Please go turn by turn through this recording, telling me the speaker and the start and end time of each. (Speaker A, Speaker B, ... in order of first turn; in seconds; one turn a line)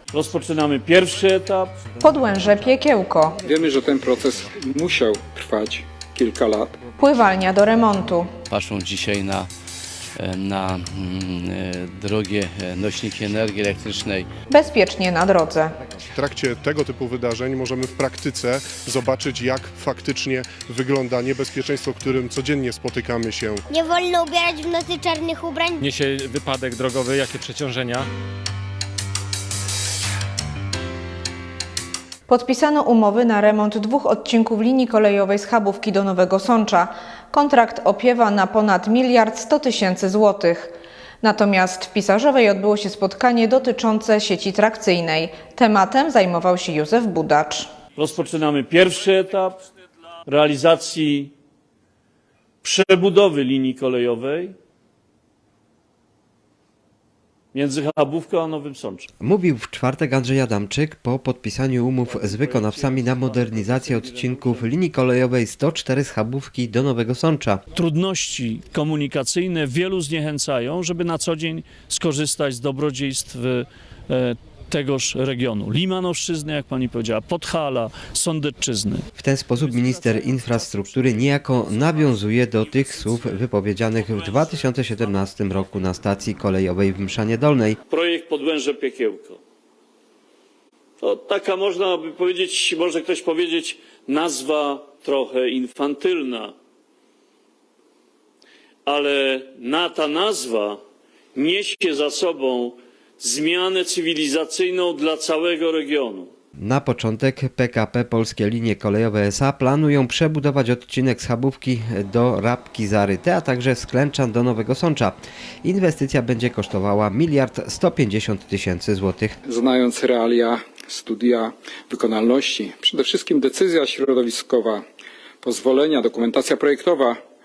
Speaker A: 0.1-1.7
Speaker B: 2.0-3.4
Speaker C: 3.4-6.8
Speaker B: 7.0-8.3
Speaker D: 8.5-9.5
Speaker D: 10.2-14.3
Speaker B: 14.5-15.7
Speaker E: 16.1-23.6
Speaker F: 23.7-25.8
Speaker G: 25.8-28.1
Speaker B: 32.3-47.7
Speaker A: 48.0-49.6
Speaker A: 50.2-51.3
Speaker A: 52.6-54.5
Speaker A: 57.5-59.1
Speaker H: 59.2-67.6
Speaker A: 62.1-64.6
Speaker A: 67.7-79.0
Speaker H: 79.2-87.8
Speaker A: 80.5-80.9
Speaker A: 87.9-89.4
Speaker A: 91.0-96.5
Speaker A: 98.8-100.8
Speaker A: 101.3-106.3
Speaker H: 106.6-119.4
Speaker C: 119.4-124.8
Speaker C: 125.4-127.2